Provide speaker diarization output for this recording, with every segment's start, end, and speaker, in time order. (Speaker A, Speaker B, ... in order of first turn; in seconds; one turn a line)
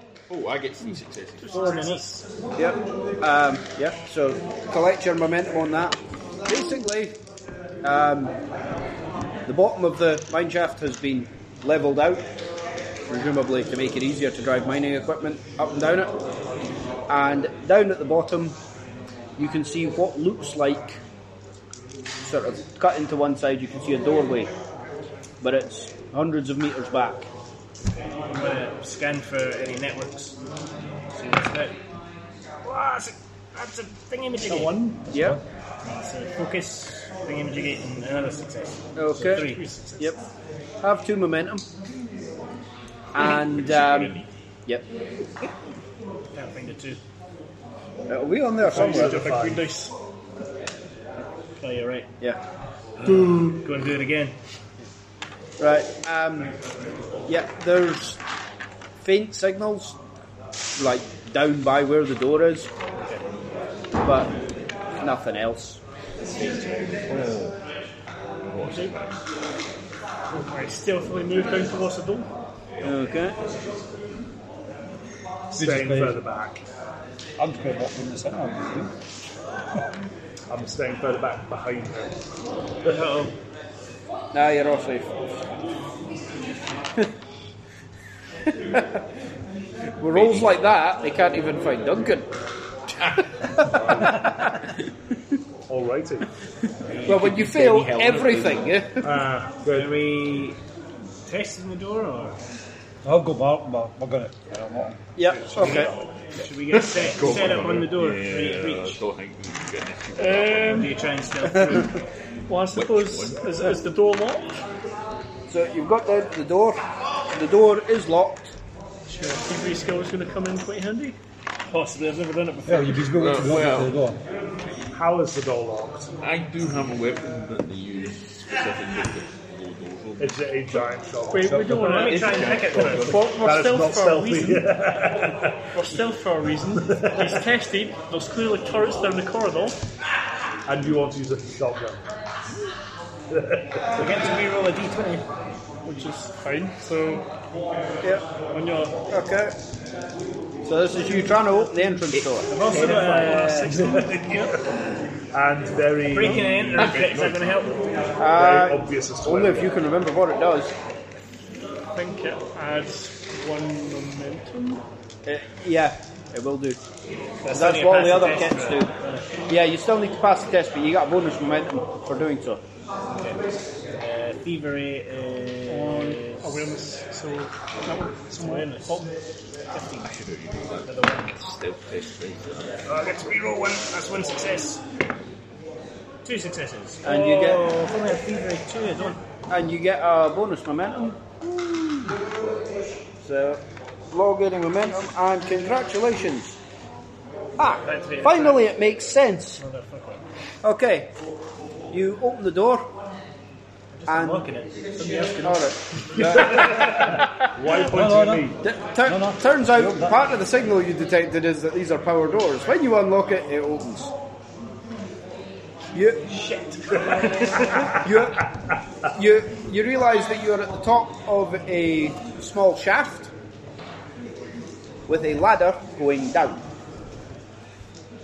Speaker A: 0.3-1.7
Speaker B: 1.4-2.2
Speaker C: 1.5-2.2
Speaker D: 2.6-7.2
Speaker D: 7.8-8.3
Speaker D: 9.5-12.3
Speaker D: 13.1-16.1
Speaker D: 17.1-18.6
Speaker D: 19.4-21.0
Speaker D: 22.2-24.5
Speaker D: 25.4-27.3
Speaker C: 28.0-30.4
Speaker C: 31.1-31.8
Speaker C: 32.6-35.0
Speaker B: 34.5-35.0
Speaker D: 35.1-35.4
Speaker E: 35.1-35.4
Speaker C: 35.9-39.8
Speaker D: 39.0-40.2
Speaker B: 39.2-40.1
Speaker D: 40.8-41.6
Speaker D: 43.1-44.9
Speaker A: 43.4-44.3
Speaker C: 46.3-47.0
Speaker D: 48.1-49.2
Speaker F: 48.6-49.8
Speaker B: 48.7-49.9
Speaker C: 51.6-52.1
Speaker C: 53.0-54.4
Speaker F: 53.1-53.5
Speaker D: 55.6-56.5
Speaker D: 57.3-58.2
Speaker D: 59.0-60.0
Speaker D: 60.8-62.7
Speaker D: 64.0-64.3
Speaker D: 65.0-65.8
Speaker A: 67.1-67.5
Speaker A: 68.5-69.1
Speaker B: 68.7-69.0
Speaker B: 70.3-72.3
Speaker D: 72.8-73.4
Speaker F: 75.5-76.6
Speaker E: 75.6-76.2
Speaker E: 77.4-78.9
Speaker F: 80.5-82.2
Speaker C: 82.8-83.3
Speaker D: 84.3-85.3
Speaker D: 88.7-89.0
Speaker D: 90.0-92.3
Speaker A: 90.1-90.6
Speaker D: 93.4-94.5
Speaker F: 93.7-94.1
Speaker F: 95.7-96.3
Speaker C: 96.9-98.4
Speaker D: 97.0-99.1
Speaker F: 99.0-100.0
Speaker C: 99.7-100.6
Speaker C: 101.3-102.4
Speaker E: 103.0-105.0
Speaker D: 105.2-105.9
Speaker F: 105.3-105.9
Speaker C: 105.6-109.0
Speaker A: 106.7-110.9
Speaker B: 110.2-111.0
Speaker C: 110.6-112.0
Speaker B: 112.5-114.6
Speaker A: 112.7-113.7
Speaker D: 115.5-118.5
Speaker B: 119.1-121.2
Speaker C: 121.7-123.3
Speaker E: 122.7-124.2
Speaker A: 123.2-124.0
Speaker F: 124.9-126.2
Speaker A: 126.2-130.3
Speaker F: 130.2-135.8
Speaker B: 131.3-135.2
Speaker E: 131.4-131.9
Speaker C: 131.8-133.2
Speaker A: 132.3-133.1
Speaker B: 135.7-139.8
Speaker F: 136.8-137.5
Speaker F: 140.7-142.0
Speaker F: 143.3-144.2
Speaker C: 144.0-145.2
Speaker B: 145.8-147.3
Speaker B: 148.5-149.0
Speaker D: 149.1-149.6
Speaker D: 150.7-152.6
Speaker C: 152.5-154.5
Speaker B: 152.6-154.5
Speaker F: 152.7-154.6
Speaker F: 155.3-157.1
Speaker C: 156.1-157.9
Speaker B: 156.2-156.6
Speaker A: 156.8-157.6
Speaker D: 158.2-160.7
Speaker F: 158.2-159.8
Speaker B: 161.9-164.8
Speaker D: 165.3-166.8
Speaker C: 167.4-169.3
Speaker D: 167.5-168.9
Speaker D: 169.5-172.6
Speaker C: 174.0-176.6
Speaker B: 175.7-179.1
Speaker C: 178.3-179.0
Speaker C: 179.7-180.1
Speaker A: 180.0-182.5
Speaker C: 180.9-181.3
Speaker C: 182.8-184.8
Speaker C: 186.2-189.2
Speaker D: 187.0-187.6
Speaker D: 189.5-192.2
Speaker D: 193.2-196.6
Speaker D: 197.6-199.6
Speaker C: 197.8-198.7
Speaker C: 199.6-200.2
Speaker D: 200.6-201.1
Speaker D: 201.9-202.9
Speaker C: 203.9-205.7
Speaker D: 204.1-204.5
Speaker D: 205.4-207.3
Speaker F: 206.2-208.6
Speaker C: 206.5-206.8
Speaker E: 207.9-210.2
Speaker D: 208.6-214.1
Speaker D: 215.9-216.2
Speaker C: 216.3-217.9
Speaker D: 218.0-218.5
Speaker D: 219.1-223.3
Speaker D: 225.1-226.6